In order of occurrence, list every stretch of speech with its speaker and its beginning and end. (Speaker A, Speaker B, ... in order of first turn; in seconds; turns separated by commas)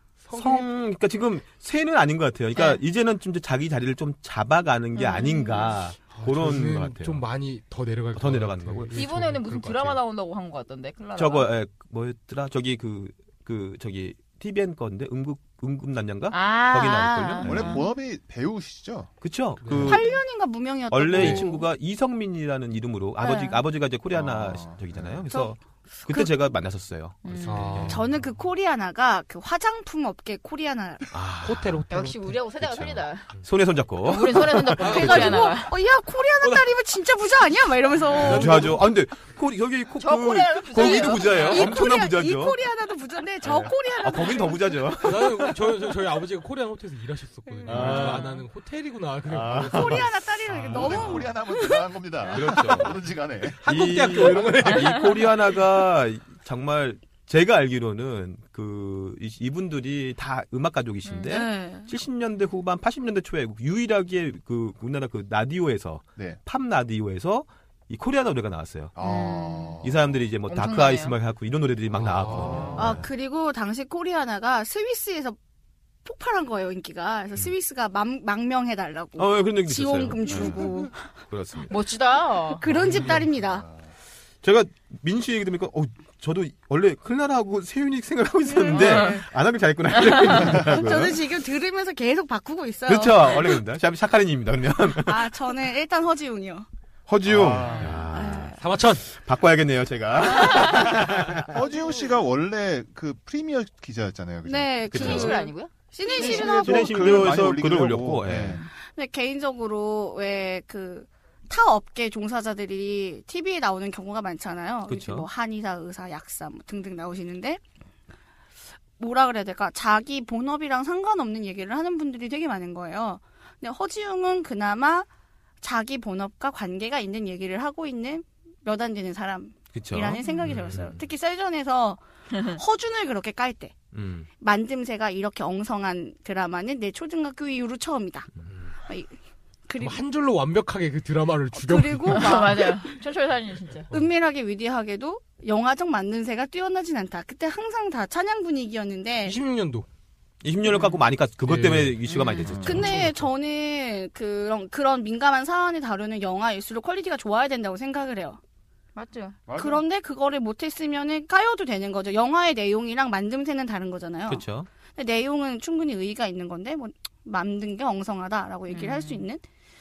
Speaker A: 0.2-0.7, Speaker B: 0.3-7.2, Speaker C: 5.0-5.8, Speaker A: 6.1-10.0, Speaker B: 8.2-8.9, Speaker C: 8.9-11.5, Speaker B: 11.2-17.9, Speaker C: 16.3-17.8, Speaker D: 17.4-19.1, Speaker B: 19.2-20.1, Speaker A: 19.6-20.0, Speaker E: 19.8-21.6, Speaker B: 20.9-28.0, Speaker A: 21.2-21.4, Speaker C: 23.2-23.6, Speaker D: 24.1-25.2, Speaker E: 26.1-26.3, Speaker C: 27.3-27.7, Speaker A: 27.4-28.1, Speaker E: 27.8-31.1, Speaker B: 31.1-31.9, Speaker A: 31.4-32.4, Speaker C: 31.9-33.2, Speaker B: 32.6-35.5, Speaker C: 34.0-35.7, Speaker A: 34.8-35.5, Speaker E: 34.8-38.7, Speaker A: 38.2-38.8, Speaker B: 38.2-42.6, Speaker C: 40.0-41.7, Speaker E: 40.8-44.8, Speaker B: 43.4-45.5, Speaker A: 45.0-51.2, Speaker B: 47.7-48.4, Speaker B: 49.3-50.1, Speaker E: 49.7-52.4, Speaker D: 50.5-53.6, Speaker B: 52.3-53.0, Speaker A: 53.6-55.3, Speaker B: 53.6-69.0, Speaker C: 61.1-61.3, Speaker E: 61.3-61.9, Speaker D: 69.0-70.0, Speaker C: 69.0-69.8, Speaker B: 69.8-73.0, Speaker C: 70.5-71.2, Speaker A: 72.0-72.9, Speaker C: 72.4-72.8, Speaker E: 72.8-75.4, Speaker E: 76.0-81.0, Speaker B: 79.2-80.7, Speaker B: 81.3-81.7, Speaker C: 81.7-82.6, Speaker E: 82.5-83.7, Speaker B: 84.4-91.2, Speaker E: 88.5-89.2, Speaker C: 88.7-89.2, Speaker E: 90.3-93.6, Speaker B: 92.9-95.3, Speaker E: 95.0-96.7, Speaker B: 97.1-101.5, Speaker D: 97.2-98.0, Speaker E: 98.1-98.6, Speaker A: 98.6-99.1, Speaker D: 101.5-105.2, Speaker E: 104.5-107.3, Speaker B: 104.9-105.4, Speaker C: 104.9-106.4, Speaker D: 106.2-108.6, Speaker B: 106.2-108.6, Speaker E: 108.8-117.6, Speaker B: 114.9-115.3, Speaker E: 119.0-125.1, Speaker E: 125.6-133.8, Speaker B: 129.7-131.0, Speaker B: 133.9-134.3, Speaker E: 134.4-138.3, Speaker E: 138.9-139.2, Speaker E: 139.7-140.0, Speaker A: 139.8-142.4, Speaker E: 141.5-142.8, Speaker C: 142.1-143.9, Speaker E: 143.9-149.4, Speaker A: 149.2-149.9, Speaker B: 150.4-153.1, Speaker A: 151.4-152.0, Speaker C: 152.1-152.6, Speaker D: 152.5-152.8, Speaker E: 152.6-158.4, Speaker A: 152.7-153.2, Speaker C: 159.0-159.4, Speaker D: 159.5-159.8, Speaker E: 159.6-169.4, Speaker B: 164.3-164.7, Speaker C: 168.7-169.2